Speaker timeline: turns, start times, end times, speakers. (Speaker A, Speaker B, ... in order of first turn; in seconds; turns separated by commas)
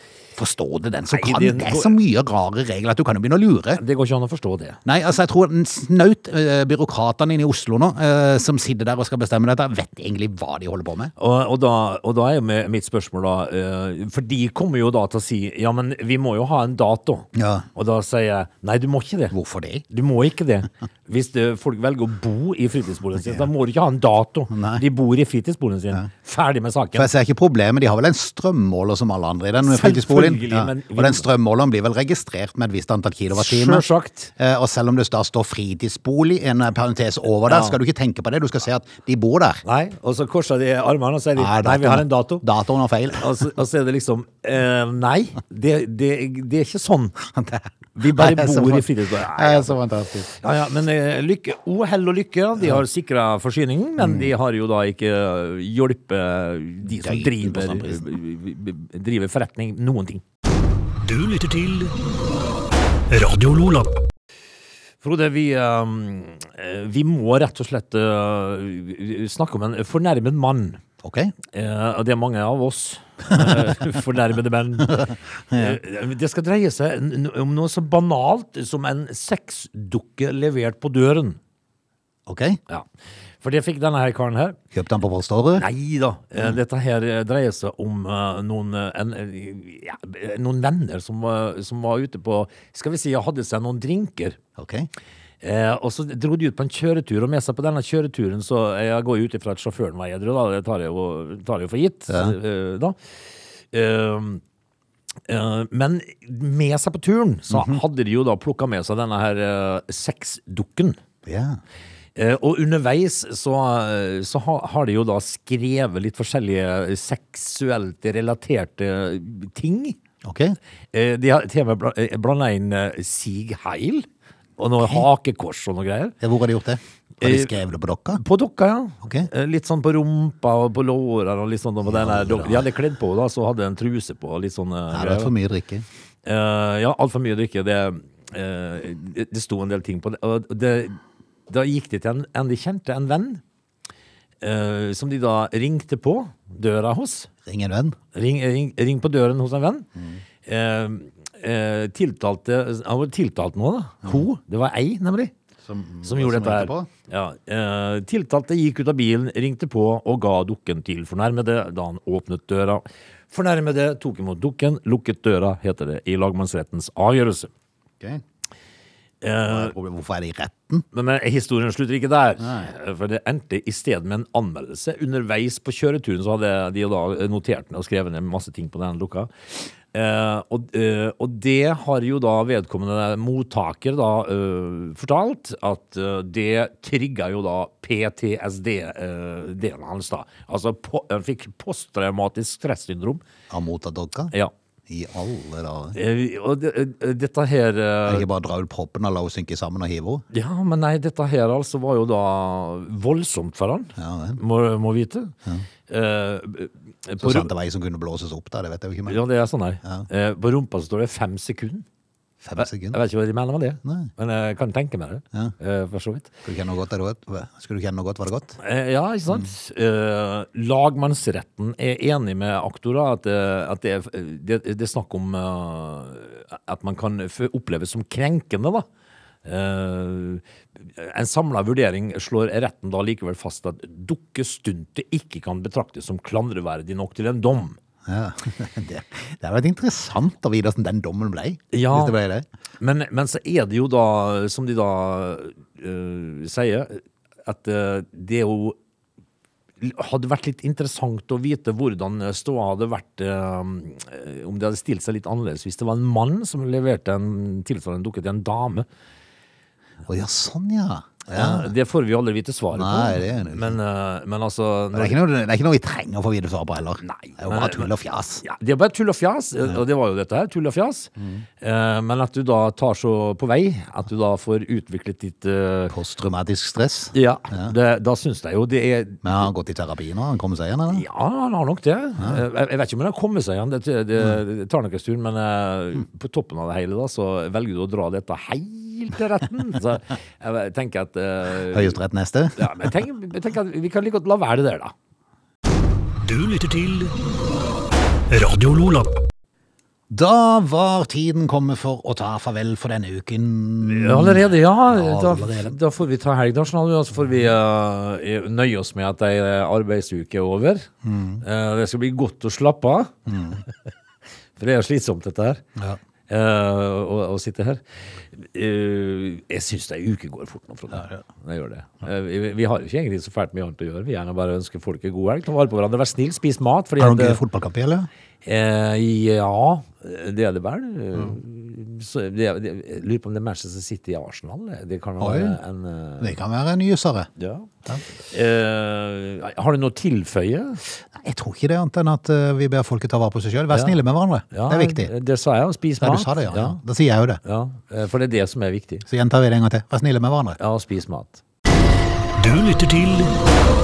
Speaker A: 0.4-3.8, Speaker B: 1.1-2.0, Speaker B: 3.8-4.8, Speaker A: 4.8-11.1, Speaker B: 11.2-19.4, Speaker A: 17.4-17.7, Speaker A: 19.3-19.8, Speaker B: 19.9-27.1, Speaker A: 24.5-24.8, Speaker A: 26.9-33.8, Speaker B: 29.6-31.3, Speaker B: 33.3-34.3, Speaker A: 34.4-39.6, Speaker B: 37.5-37.8, Speaker B: 39.6-42.5, Speaker A: 41.4-43.4, Speaker B: 43.1-47.2, Speaker A: 47.4-50.3, Speaker B: 48.0-49.8, Speaker B: 50.3-60.2, Speaker A: 54.0-54.3, Speaker A: 56.8-58.1, Speaker C: 61.0-62.0, Speaker C: 63.1-64.0, Speaker B: 65.0-70.8, Speaker A: 71.0-71.3, Speaker B: 71.5-81.4, Speaker A: 73.3-73.6, Speaker A: 74.8-75.8, Speaker A: 82.3-82.6, Speaker B: 83.4-84.6, Speaker A: 84.7-85.6, Speaker B: 85.6-94.4, Speaker A: 94.6-94.9, Speaker B: 95.4-103.0, Speaker A: 102.1-102.4, Speaker B: 103.7-104.4, Speaker B: 105.3-111.0, Speaker A: 107.5-107.8, Speaker A: 111.3-111.6, Speaker B: 112.2-120.0, Speaker A: 120.2-120.6, Speaker B: 120.9-124.1, Speaker B: 124.6-126.2, Speaker A: 126.2-128.2, Speaker B: 127.2-127.6, Speaker B: 128.2-135.3, Speaker A: 131.9-132.6, Speaker A: 134.9-135.8, Speaker B: 136.2-143.4, Speaker B: 144.4-147.3, Speaker A: 147.5-148.0, Speaker B: 148.1-149.9, Speaker A: 150.0-150.2, Speaker B: 150.5-155.3, Speaker A: 155.7-156.9, Speaker B: 156.1-167.5, Speaker B: 169.2-169.7, Speaker A: 169.5-170.8, Speaker B: 170.9-193.2, Speaker A: 172.4-172.7, Speaker A: 193.5-194.3, Speaker A: 194.9-196.0, Speaker B: 196.0-198.3, Speaker A: 198.1-200.2, Speaker B: 200.3-205.3, Speaker A: 204.0-204.4, Speaker B: 205.9-207.5, Speaker A: 207.2-209.2, Speaker B: 209.1-211.8, Speaker A: 212.4-213.0, Speaker B: 212.6-216.3, Speaker A: 213.8-214.1, Speaker A: 216.4-218.6, Speaker B: 218.6-228.9, Speaker B: 229.4-237.8, Speaker A: 238.1-242.4, Speaker B: 241.7-242.2, Speaker B: 242.8-248.8, Speaker B: 249.8-258.9, Speaker A: 260.1-261.7, Speaker B: 261.3-265.2, Speaker A: 262.7-263.8, Speaker A: 264.9-268.4, Speaker B: 267.0-267.9, Speaker B: 268.4-275.9, Speaker A: 271.2-271.4, Speaker A: 275.9-277.7, Speaker B: 277.1-279.4, Speaker A: 279.2-281.0, Speaker B: 280.9-292.0, Speaker A: 291.7-292.9, Speaker B: 292.6-294.9, Speaker C: 296.2-297.1, Speaker C: 298.3-299.2, Speaker A: 300.1-305.8, Speaker B: 303.8-310.9, Speaker A: 311.1-311.4, Speaker B: 311.4-313.3, Speaker A: 313.3-313.6, Speaker B: 314.6-315.6, Speaker B: 316.3-317.8, Speaker B: 318.4-327.4, Speaker A: 320.9-321.2, Speaker A: 327.0-328.1, Speaker B: 328.4-336.4, Speaker A: 335.2-335.6, Speaker A: 336.2-337.3, Speaker B: 337.4-337.7, Speaker B: 338.2-340.8, Speaker A: 341.1-345.1, Speaker B: 344.5-346.8, Speaker A: 346.0-347.4, Speaker B: 347.4-349.1, Speaker A: 349.1-350.6, Speaker B: 350.6-351.4, Speaker C: 352.4-353.4